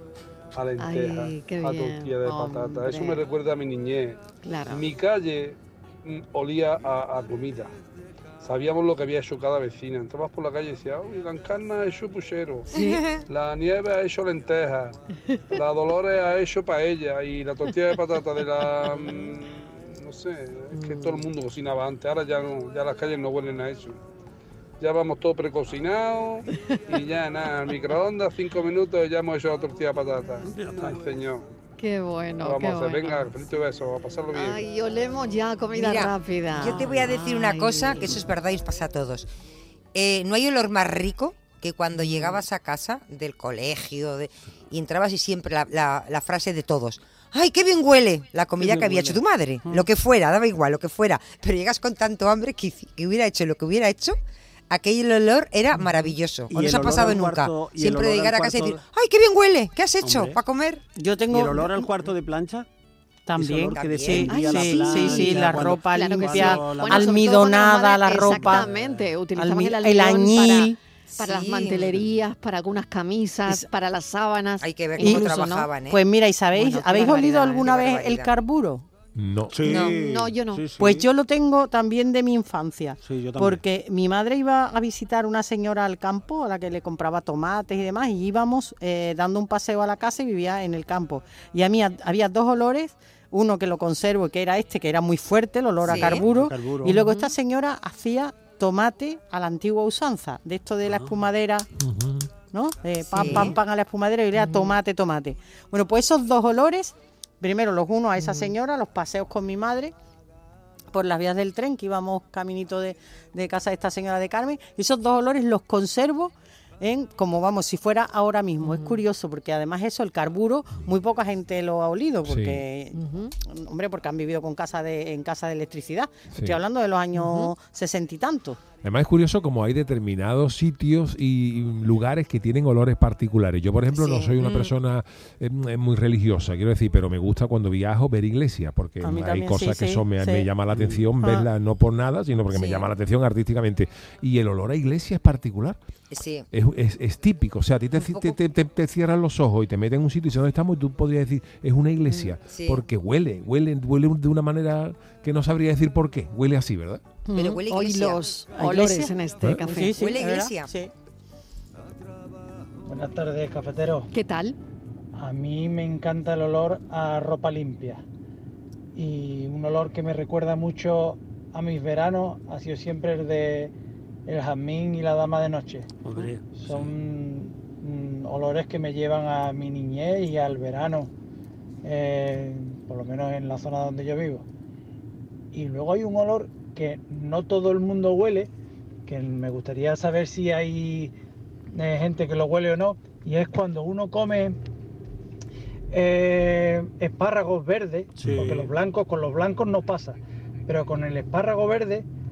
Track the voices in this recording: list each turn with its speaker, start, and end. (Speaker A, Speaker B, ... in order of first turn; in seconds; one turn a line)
Speaker A: 0.5-7.7
Speaker B: 0.8-3.2
Speaker B: 4.4-4.8
Speaker A: 8.4-12.7
Speaker B: 12.7-13.0
Speaker C: 12.8-13.2
Speaker A: 13.3-15.0
Speaker A: 15.5-24.0
Speaker B: 18.9-19.2
Speaker B: 20.7-21.2
Speaker A: 24.8-31.5
Speaker D: 30.4-31.1
Speaker B: 31.8-33.3
Speaker A: 32.4-34.7
Speaker B: 34.3-38.2
Speaker C: 35.8-39.3
Speaker C: 39.9-54.2
Speaker B: 42.0-42.4
Speaker D: 48.6-49.2
Speaker C: 54.7-60.8
Speaker D: 56.5-58.8
Speaker D: 60.0-60.4
Speaker E: 60.9-62.1
Speaker D: 61.3-62.7
Speaker E: 63.3-68.7
Speaker D: 63.4-67.3
Speaker C: 63.9-64.3
Speaker B: 64.3-75.7
Speaker D: 68.2-69.1
Speaker E: 69.3-70.8
Speaker C: 71.1-72.0
Speaker C: 74.6-76.0
Speaker E: 75.0-78.8
Speaker B: 76.5-77.7
Speaker C: 77.5-78.3
Speaker F: 79.2-79.5
Speaker D: 79.5-81.1
Speaker C: 79.6-80.0
Speaker B: 79.8-80.6
Speaker E: 80.8-101.7
Speaker D: 83.0-83.6
Speaker D: 95.8-97.0
Speaker C: 95.9-96.2
Speaker B: 97.0-97.3
Speaker D: 100.8-101.1
Speaker F: 101.8-102.3
Speaker E: 102.5-109.9
Speaker C: 103.1-103.6
Speaker B: 103.2-103.5
Speaker B: 104.4-104.7
Speaker B: 108.2-108.5
Speaker E: 110.9-128.6
Speaker B: 118.6-119.0
Speaker F: 122.2-122.6
Speaker B: 122.9-123.3
Speaker F: 126.3-126.6
Speaker B: 127.1-127.5
Speaker F: 128.8-145.8
Speaker C: 133.9-134.7
Speaker E: 139.0-140.5
Speaker D: 140.7-141.0
Speaker E: 141.2-141.5
Speaker C: 142.5-142.9
Speaker C: 146.1-146.5
Speaker F: 146.5-157.0
Speaker C: 148.0-148.3
Speaker C: 152.5-152.8
Speaker E: 157.3-157.6
Speaker C: 157.3-158.3
Speaker B: 157.7-160.0
Speaker E: 158.5-160.9
Speaker C: 159.9-160.7
Speaker G: 162.9-164.1
Speaker B: 164.1-164.6
Speaker G: 165.2-168.0
Speaker G: 168.9-173.7
Speaker G: 174.2-176.0
Speaker D: 176.0-176.6
Speaker G: 176.5-181.1
Speaker G: 181.8-184.4
Speaker G: 185.5-188.5
Speaker G: 189.1-191.1
Speaker G: 191.7-194.6
Speaker G: 195.9-202.1
Speaker D: 198.2-198.7